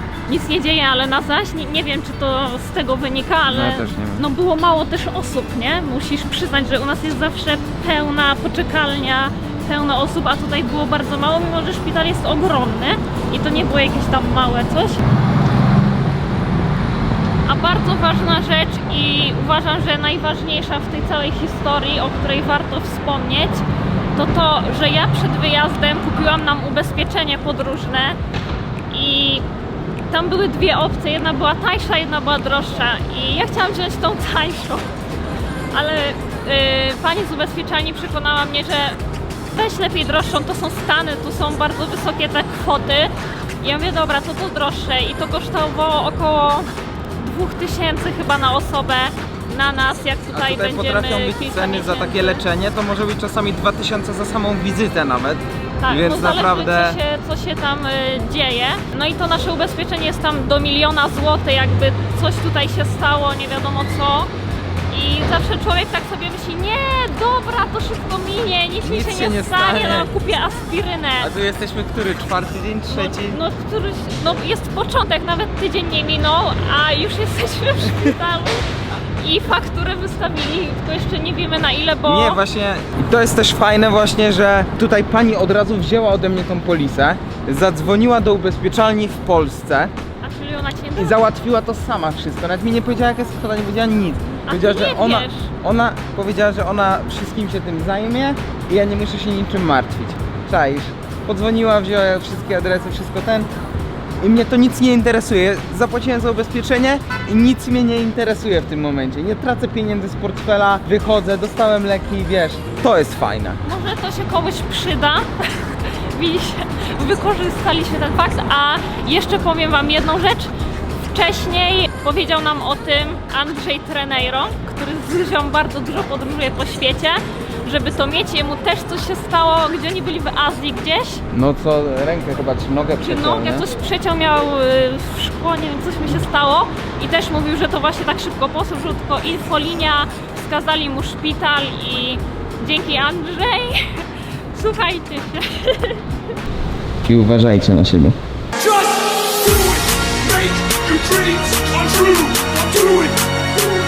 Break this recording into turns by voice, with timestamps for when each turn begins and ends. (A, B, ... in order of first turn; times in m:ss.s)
0:00.3-0:15.0 A
0:03.5-0:04.3 B
0:17.4-0:28.2 A
0:28.9-0:29.4 A
0:30.1-0:34.9 A
0:35.7-0:39.0 A
0:39.5-0:52.4 A
0:50.3-0:57.0 B
0:55.8-1:04.3 A
1:04.9-1:11.3 A
1:08.8-1:10.1 B
1:11.2-1:13.4 B
1:12.9-1:18.6 A
1:19.2-1:22.4 A
1:22.0-1:29.9 B
1:30.2-1:31.2 A
1:30.9-1:43.5 B
1:34.4-1:35.5 A
1:44.2-1:53.6 B
1:53.6-2:00.5 A
2:01.1-2:11.2 A
2:11.3-2:13.7 B
2:13.0-2:26.0 A
2:27.0-2:28.2 B
2:28.6-2:33.5 C